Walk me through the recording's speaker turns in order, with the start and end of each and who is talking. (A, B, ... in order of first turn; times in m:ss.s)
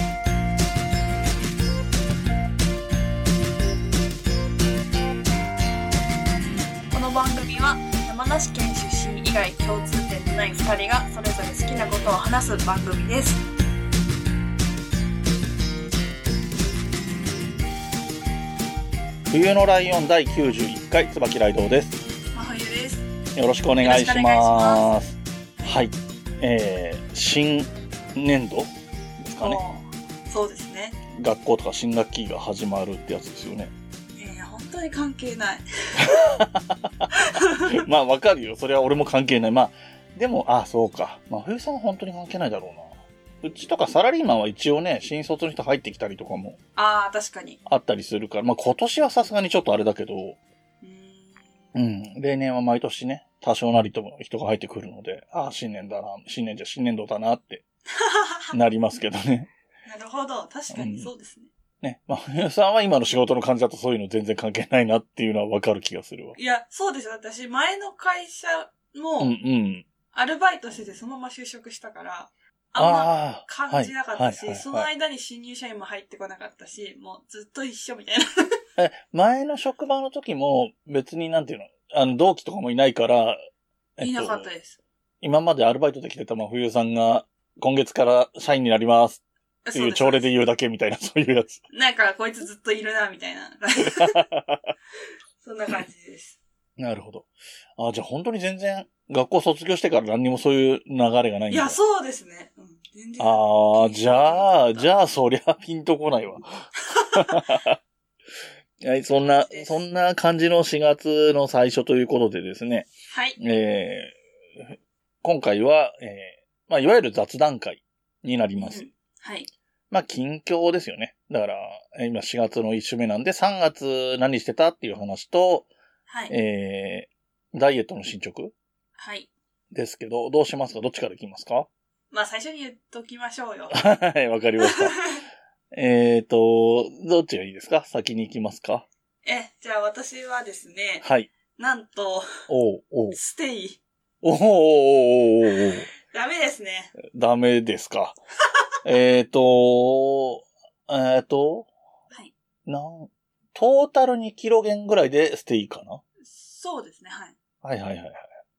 0:06.9-0:13.4 A
0:19.3-0:22.0 B
0:22.3-0:23.1 A
0:23.4-0:28.7 B
0:23.8-0:25.0 A
0:29.2-0:29.6 B
0:29.4-0:31.0 A
0:31.1-0:33.7 B
0:34.2-0:36.1 A
0:36.0-0:37.1 B
0:37.2-0:37.8 A
0:37.7-0:46.6 B
0:46.8-0:47.6 A
0:47.7-0:50.4 B
0:50.8-0:51.6 A
0:51.8-0:57.6 B
0:58.0-0:58.6 A
0:58.5-0:59.5 B
0:59.9-1:01.5 A
1:00.7-1:01.1 B
1:01.8-1:06.4 B
1:06.4-1:09.3 A
1:09.2-1:09.9 B
1:10.1-1:18.6 A
1:12.8-1:14.9 B
1:18.8-1:23.4 B
1:24.0-1:24.5 B
1:24.0-1:24.8 A
1:25.2-1:29.2 B
1:29.6-1:30.3 A
1:29.7-1:31.6 B
1:31.7-1:34.2 A
1:33.8-1:34.7 B
1:35.4-1:36.4 A
1:36.8-1:41.8 B
1:41.5-1:44.9 A
1:43.2-1:47.8 B
1:46.9-1:47.4 A
1:48.8-1:58.8 B
1:49.2-1:49.8 A
1:53.1-1:53.4 A
1:58.6-1:59.5 A
1:59.9-2:05.7 B
2:06.1-2:06.3 A
2:06.3-2:08.5 B
2:09.0-2:09.3 A
2:09.7-2:11.7 B
2:12.1-2:13.8 A
2:13.7-2:15.0 B
2:14.6-2:15.2 A
2:15.7-2:18.8 B
2:19.2-2:22.3 A
2:21.0-2:21.3 B
2:22.5-2:23.2 B
2:23.1-2:23.8 A
2:24.2-2:25.9 B
2:26.0-2:26.9 A
2:27.0-2:28.2 B
2:28.8-2:31.7 B
2:32.7-2:36.0 B
2:36.2-2:37.3 A
2:37.6-2:38.2 B